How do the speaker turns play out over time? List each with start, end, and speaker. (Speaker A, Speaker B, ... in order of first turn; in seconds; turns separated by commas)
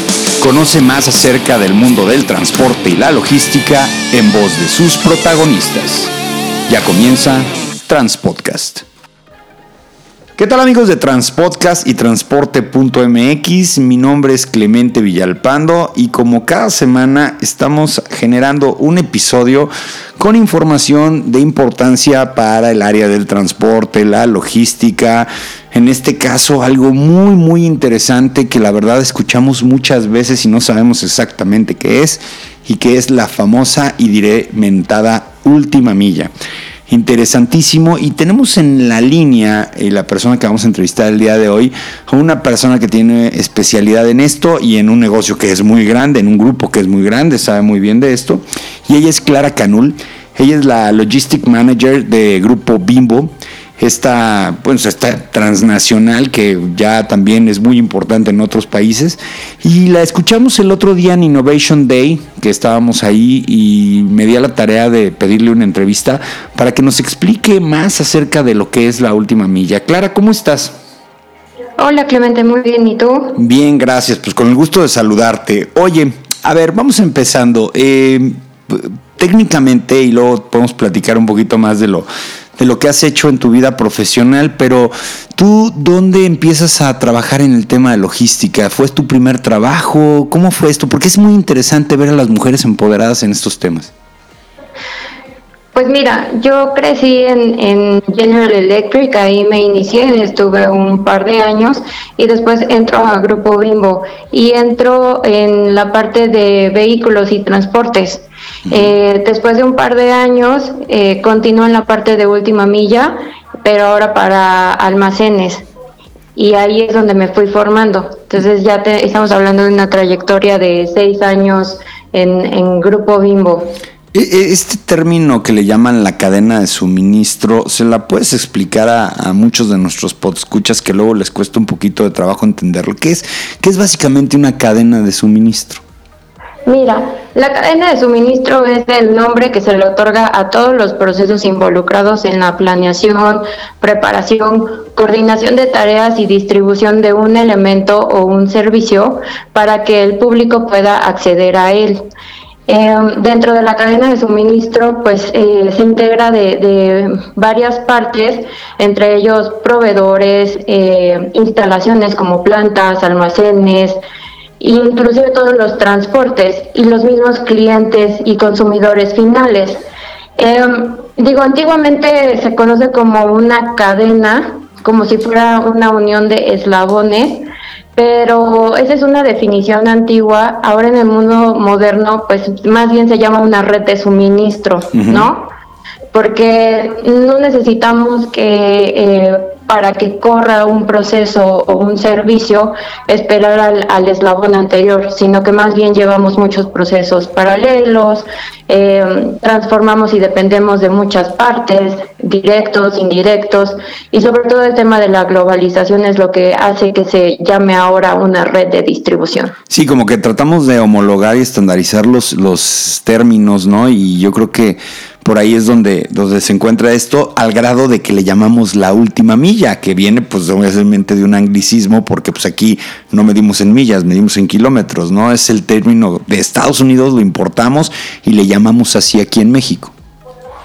Speaker A: 0.4-6.1, Speaker A: 6.7-8.8, Speaker A: 10.4-36.3, Speaker A: 36.9-70.7, Speaker B: 71.8-73.4, Speaker A: 73.4-93.9, Speaker B: 95.8-115.7, Speaker B: 116.4-123.8, Speaker A: 124.1-135.8, Speaker B: 136.7-152.0, Speaker B: 152.7-164.0, Speaker B: 164.6-169.8, Speaker B: 170.4-185.5, Speaker A: 184.9-185.3, Speaker B: 186.1-209.6, Speaker A: 209.7-229.9